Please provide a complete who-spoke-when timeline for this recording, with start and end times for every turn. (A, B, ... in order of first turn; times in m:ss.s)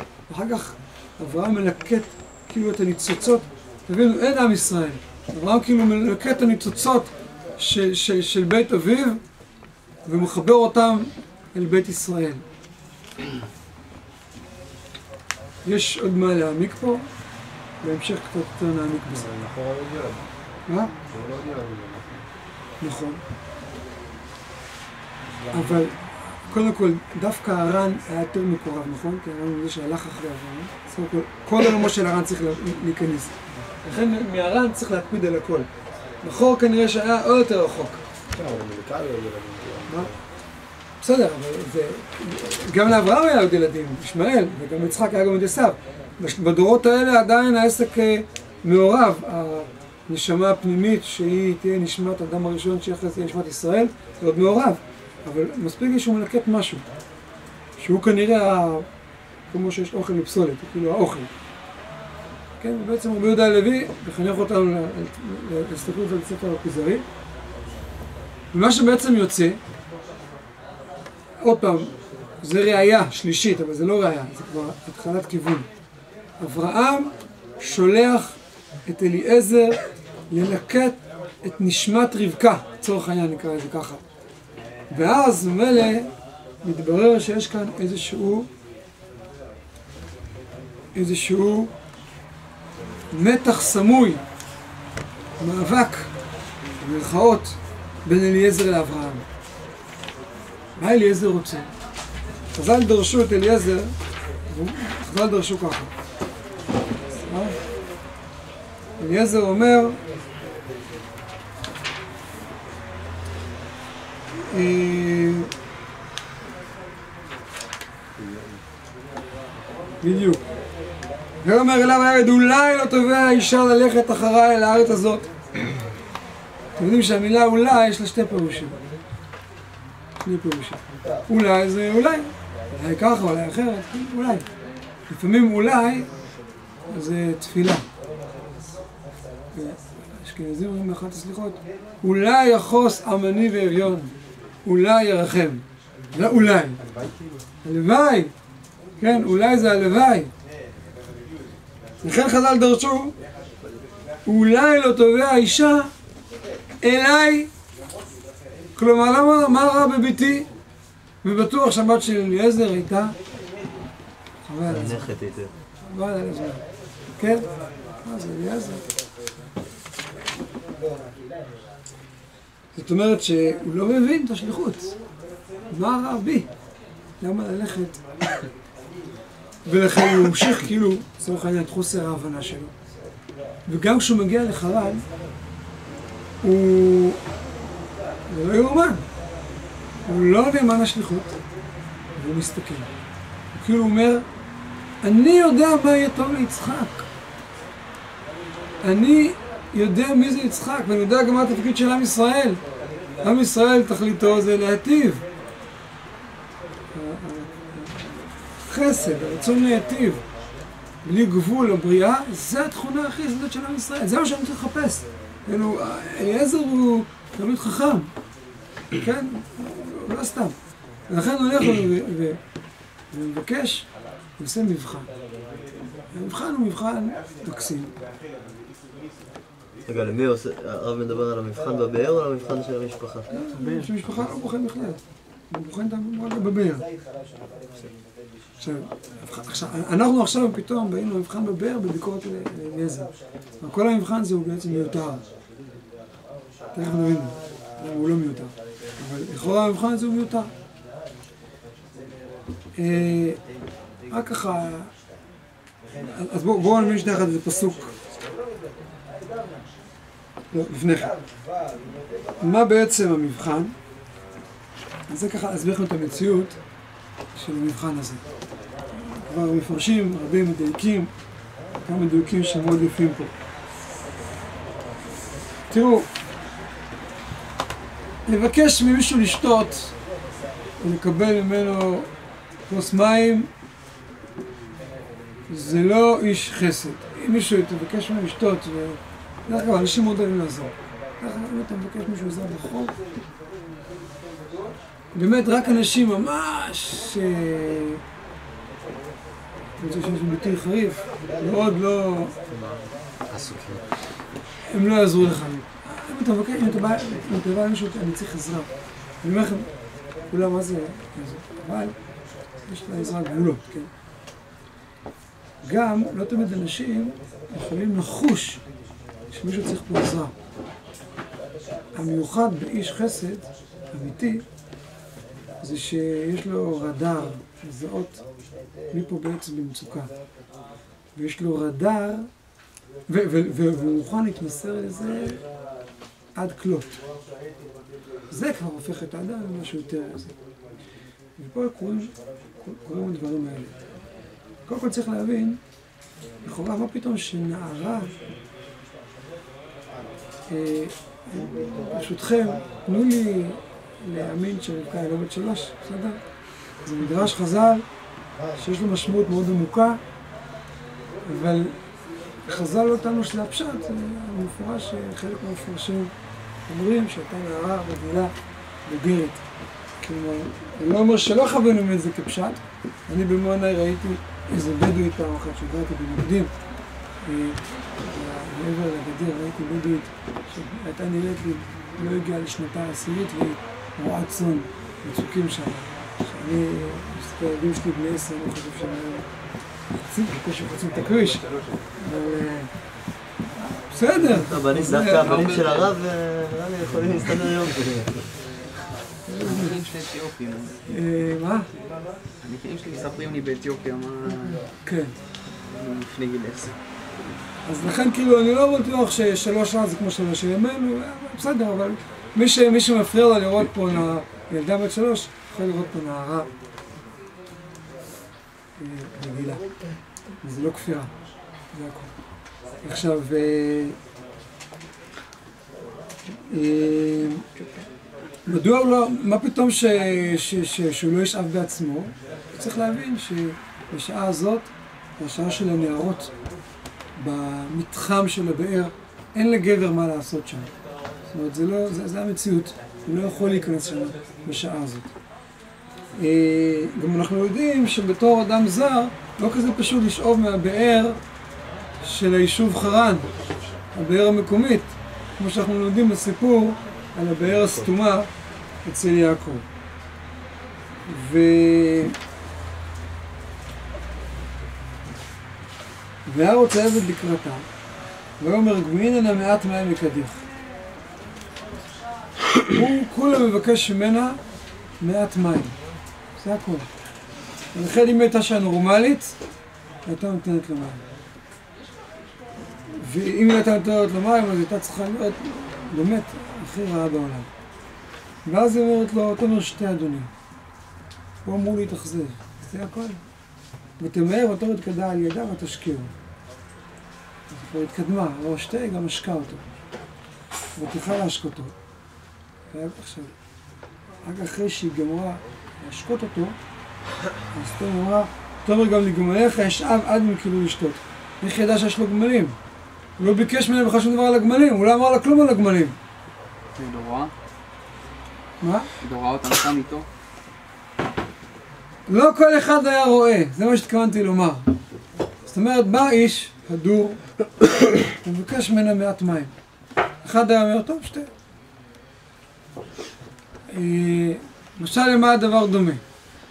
0:00.3-0:09.2 A
0:10.0-0:12.4 A
0:15.6-0:17.0 A
0:17.8-0:19.3 A
0:19.1-0:20.3 B
0:20.7-0:20.9 A
0:21.1-0:22.2 B
0:22.8-0:23.2 A
0:25.3-0:25.9 B
0:25.5-0:35.7 A
0:36.2-0:38.0 A
0:38.3-0:40.2 B
0:41.0-0:56.8 A
0:57.8-0:58.9 A
0:59.5-1:01.3 A
1:02.6-1:07.0 A
1:08.5-1:09.6 A
1:11.4-1:15.7 A
1:16.4-1:19.8 A
1:20.3-1:24.0 A
1:24.9-1:26.1 A
1:26.6-1:28.5 A
1:30.9-1:31.7 A
1:33.1-1:34.2 A
1:35.4-1:36.1 A
1:36.8-1:39.2 A
1:40.8-1:41.7 A
1:42.5-1:43.9 A
1:44.5-1:45.9 A
1:47.1-1:47.6 A
1:49.0-1:50.0 A
1:54.4-1:55.5 A
1:58.2-1:58.6 B
2:00.0-2:00.4 A
2:01.4-2:05.3 A
2:06.8-2:08.8 A
2:10.2-2:14.4 A
2:15.1-2:16.1 A
2:16.9-2:17.8 A
2:19.5-2:26.8 A
2:27.6-2:28.3 A
2:29.0-2:30.3 A
2:32.0-2:33.1 A
2:34.2-2:35.9 A
2:36.8-2:37.5 A
2:38.8-2:40.5 A
2:41.2-2:43.2 A
2:44.4-2:45.1 A
2:44.7-2:45.5 C
2:45.8-2:46.6 A
2:47.2-2:47.4 A
2:48.0-2:48.8 A
2:52.7-2:54.9 A
2:55.7-2:56.5 A
2:57.2-2:58.0 A
2:59.6-3:02.7 A
3:03.7-3:05.0 A
3:06.4-3:07.2 A
3:08.3-3:09.0 A
3:10.0-3:11.4 A
3:12.2-3:12.9 A
3:13.5-3:14.2 A
3:15.0-3:17.1 A
3:18.8-3:22.6 A
3:23.2-3:25.2 A
3:26.9-3:30.2 A
3:31.0-3:38.1 A
3:39.0-3:40.5 A
3:41.1-3:42.4 A
3:43.1-3:45.1 A
3:46.1-3:47.9 A
3:49.8-3:53.4 C
3:53.3-3:56.8 A
3:53.6-3:53.9 D
3:58.6-4:05.2 A
4:06.7-4:10.5 A
4:12.8-4:13.4 A
4:14.1-4:14.9 A
4:16.0-4:18.0 A
4:20.5-4:21.1 A
4:22.4-4:23.7 A
4:25.1-4:26.6 A
4:27.3-4:28.2 A
4:28.9-4:31.1 A
4:31.8-4:33.3 A
4:35.7-4:36.1 A
4:38.3-4:39.9 A
4:40.8-4:42.1 A
4:42.7-4:43.5 A
4:45.5-4:52.9 A
4:55.1-4:58.0 A
4:59.8-5:02.3 A
5:02.5-5:03.8 B
5:04.7-5:08.7 A
5:09.2-5:09.7 A
5:10.3-5:11.9 A
5:12.7-5:13.9 A
5:15.6-5:18.6 A
5:19.3-5:20.3 A
5:21.9-5:24.4 A
5:25.6-5:28.2 A
5:28.9-5:30.1 A
5:31.1-5:32.3 A
5:33.1-5:35.4 A
5:36.3-5:37.0 A
5:38.3-5:40.3 A
5:41.4-5:43.7 A
5:44.7-5:45.6 A
5:46.4-5:48.1 A
5:50.5-5:56.2 A
5:56.8-5:57.8 A
5:58.5-6:00.0 A
6:01.2-6:01.7 A
6:02.4-6:06.1 A
6:06.7-6:08.3 A
6:08.8-6:09.4 A
6:10.0-6:16.5 A
6:17.2-6:29.3 A
6:29.9-6:32.7 A
6:33.6-6:35.6 A
6:34.1-6:38.2 C
6:35.2-6:35.9 D
6:39.2-6:39.8 A
6:39.4-6:40.8 D
6:40.9-6:41.7 A
6:42.4-6:44.7 D
6:44.8-6:45.1 A
6:45.7-6:46.8 D
6:47.6-6:56.5 A
6:58.8-6:59.6 A
7:00.4-7:01.1 A
7:01.7-7:02.1 A
7:02.8-7:04.0 A
7:06.4-7:07.5 A
7:08.4-7:16.3 A
7:17.2-7:20.7 A
7:21.3-7:25.1 A
7:26.2-7:31.2 A
7:32.0-7:33.3 A
7:33.9-7:38.3 A
7:38.8-7:39.6 A
7:41.1-7:42.1 A
7:46.2-7:47.6 A
7:48.4-7:50.4 A
7:52.7-7:54.4 A
7:55.0-7:55.8 A
7:56.4-7:56.9 A
7:57.7-7:59.4 A
8:00.0-8:01.0 A
8:02.9-8:07.5 A
8:08.4-8:10.3 A
8:11.4-8:13.2 A
8:14.0-8:16.1 A
8:17.5-8:19.6 A
8:20.8-8:21.7 A
8:22.7-8:23.3 A
8:24.2-8:26.5 A
8:27.5-8:32.5 A
8:33.2-8:36.0 A
8:36.7-8:37.3 D
8:38.6-8:38.9 A
8:39.0-8:40.1 D
8:42.1-8:44.7 A
8:45.4-8:47.2 A
8:48.2-8:49.5 A
8:50.2-8:51.3 A
8:53.7-8:56.0 A